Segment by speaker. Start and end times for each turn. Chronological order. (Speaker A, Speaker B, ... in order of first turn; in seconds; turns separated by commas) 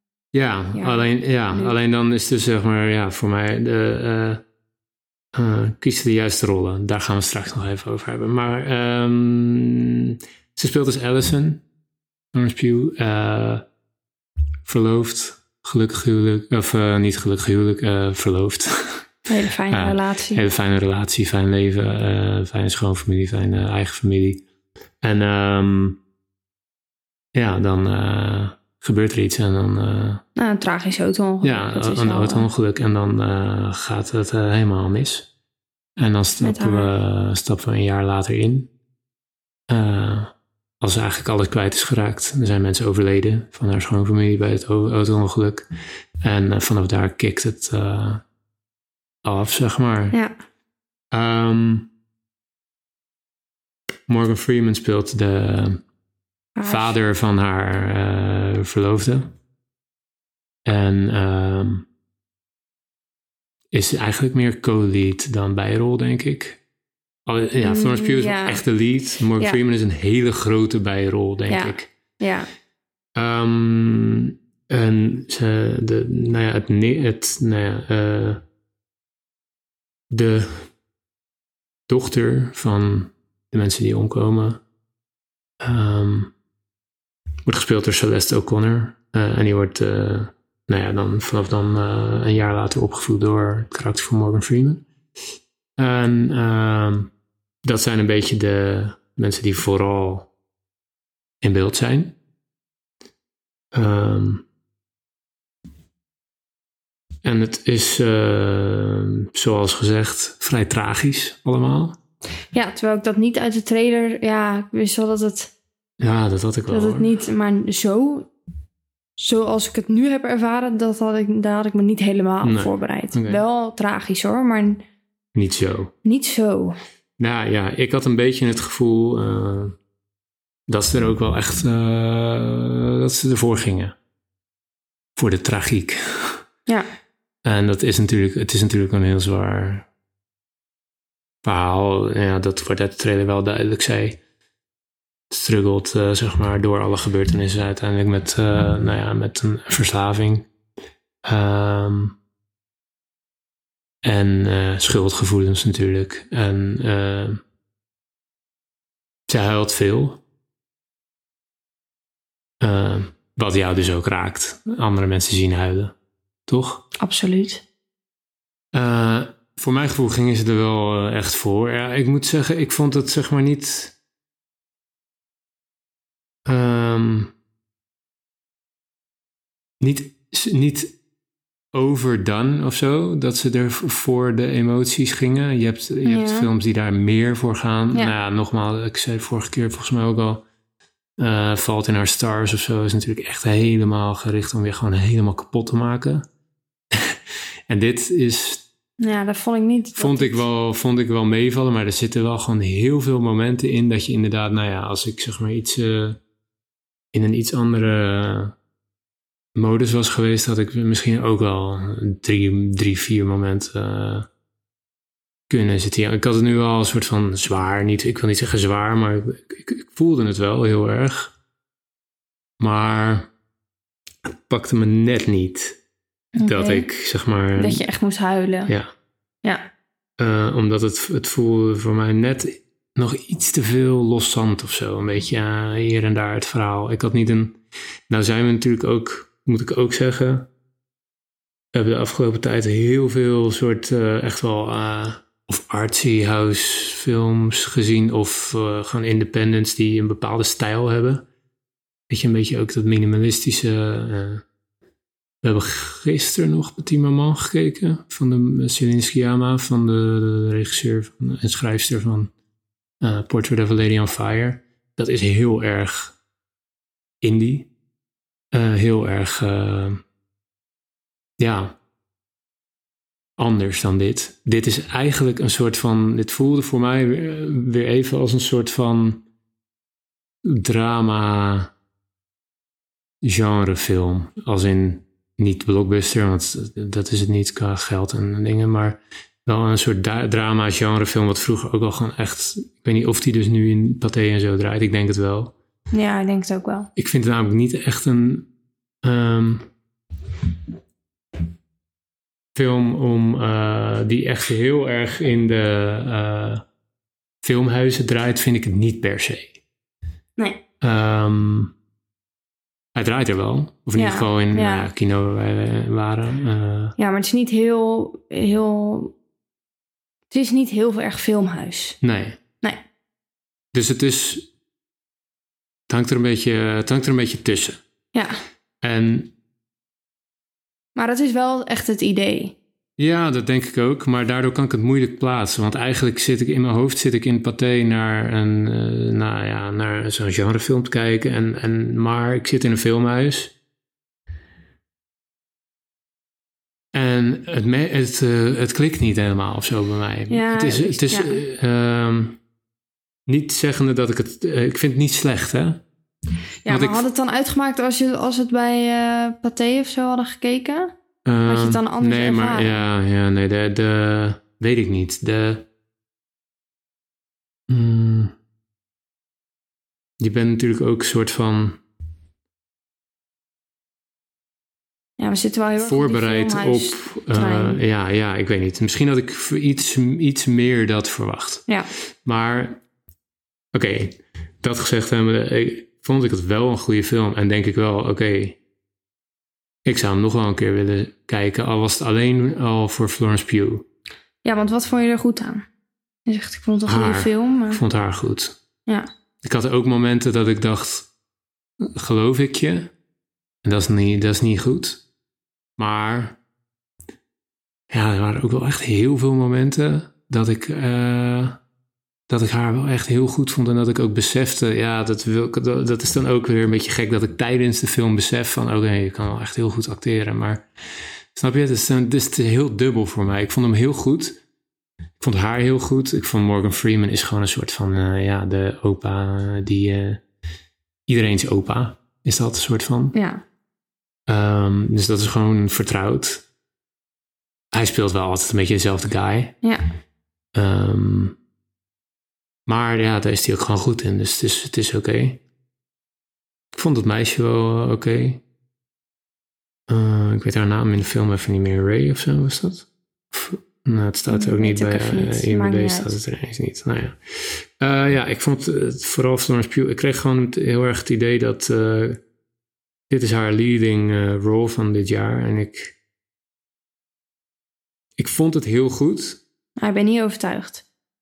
Speaker A: 0.3-4.4, Speaker B: 0.8-1.7, Speaker A: 5.3-11.6, Speaker A: 12.3-13.6, Speaker A: 14.7-19.1, Speaker B: 19.3-20.4, Speaker A: 19.7-24.4, Speaker A: 25.0-26.0, Speaker A: 27.3-30.2, Speaker B: 30.4-32.5, Speaker A: 31.4-35.3, Speaker A: 36.0-38.7, Speaker B: 36.4-36.9, Speaker A: 39.7-45.7, Speaker A: 46.2-48.2, Speaker A: 49.2-50.2, Speaker A: 51.1-51.9, Speaker A: 54.1-55.8, Speaker B: 56.5-57.0, Speaker A: 56.6-59.3, Speaker A: 60.7-61.9, Speaker A: 63.7-66.6, Speaker A: 67.3-71.9, Speaker B: 67.6-68.6, Speaker B: 71.5-72.5, Speaker A: 73.2-78.4, Speaker A: 80.1-80.7, Speaker A: 81.9-84.6, Speaker A: 85.6-86.3, Speaker A: 87.5-94.9, Speaker A: 95.8-97.1, Speaker A: 97.6-100.3, Speaker A: 101.4-102.2, Speaker A: 103.7-104.5, Speaker A: 107.2-112.0, Speaker B: 112.5-115.5, Speaker A: 116.0-117.1, Speaker B: 116.7-118.3, Speaker B: 119.2-124.8, Speaker A: 122.4-123.4, Speaker A: 125.3-125.9, Speaker B: 126.0-126.8, Speaker A: 127.2-129.8, Speaker A: 130.7-133.9, Speaker A: 135.2-136.4, Speaker A: 137.4-139.9, Speaker A: 141.4-144.2, Speaker A: 145.3-150.5, Speaker A: 151.2-152.2, Speaker A: 154.0-157.4, Speaker A: 159.3-160.2, Speaker A: 162.6-165.9, Speaker A: 166.5-166.8, Speaker B: 167.0-167.6, Speaker A: 168.7-173.9, Speaker A: 176.5-177.3, Speaker A: 179.8-180.9, Speaker A: 181.7-190.4, Speaker B: 186.1-186.5, Speaker A: 191.2-196.2, Speaker A: 196.9-197.2, Speaker A: 197.7-198.6, Speaker B: 199.0-200.4, Speaker A: 199.9-206.2, Speaker A: 207.1-208.6, Speaker A: 209.6-214.3, Speaker A: 215.5-221.3, Speaker A: 222.6-223.3, Speaker A: 224.2-225.8, Speaker B: 226.4-226.9, Speaker A: 226.4-227.8, Speaker B: 227.6-228.7, Speaker A: 230.2-237.6, Speaker A: 238.1-240.5, Speaker A: 241.7-251.3, Speaker A: 252.1-254.4, Speaker A: 255.4-262.3, Speaker A: 263.0-266.2, Speaker A: 267.2-267.7, Speaker A: 268.5-270.0, Speaker A: 271.4-271.8, Speaker A: 273.4-279.2, Speaker A: 280.4-281.7, Speaker A: 283.2-295.5, Speaker B: 295.9-296.9, Speaker A: 297.0-298.5, Speaker A: 299.0-299.7, Speaker A: 302.6-306.6, Speaker A: 307.4-309.6, Speaker B: 310.4-310.6, Speaker A: 310.8-311.7, Speaker A: 312.9-317.0, Speaker B: 314.0-314.9, Speaker B: 317.0-319.1, Speaker B: 320.3-322.0, Speaker A: 322.0-322.4, Speaker A: 323.7-324.5, Speaker A: 325.9-327.8, Speaker A: 328.8-329.3, Speaker B: 330.9-332.6, Speaker A: 333.0-343.5, Speaker A: 346.9-352.4, Speaker B: 350.3-351.4, Speaker A: 353.3-355.8, Speaker B: 356.6-360.9, Speaker A: 356.7-357.1, Speaker A: 361.2-365.7, Speaker B: 361.5-362.8, Speaker A: 367.7-368.3, Speaker A: 370.2-371.8, Speaker B: 375.2-377.8, Speaker A: 375.8-381.7, Speaker A: 382.2-382.8, Speaker A: 383.7-388.6, Speaker A: 389.9-393.9, Speaker B: 394.4-395.7, Speaker B: 396.3-397.8, Speaker A: 396.9-398.6, Speaker A: 399.4-401.1, Speaker A: 401.8-402.9, Speaker A: 403.6-405.0, Speaker A: 405.8-406.4, Speaker A: 407.9-411.6, Speaker A: 412.3-420.6, Speaker A: 421.3-424.4, Speaker A: 425.2-430.2, Speaker A: 431.1-433.1, Speaker B: 433.1-433.4, Speaker A: 434.3-436.4, Speaker A: 437.7-439.6, Speaker A: 440.6-441.4, Speaker A: 442.7-445.4, Speaker A: 446.7-448.4, Speaker A: 449.9-462.2, Speaker B: 454.3-456.2, Speaker A: 463.1-466.0, Speaker A: 468.2-469.4, Speaker B: 469.8-470.8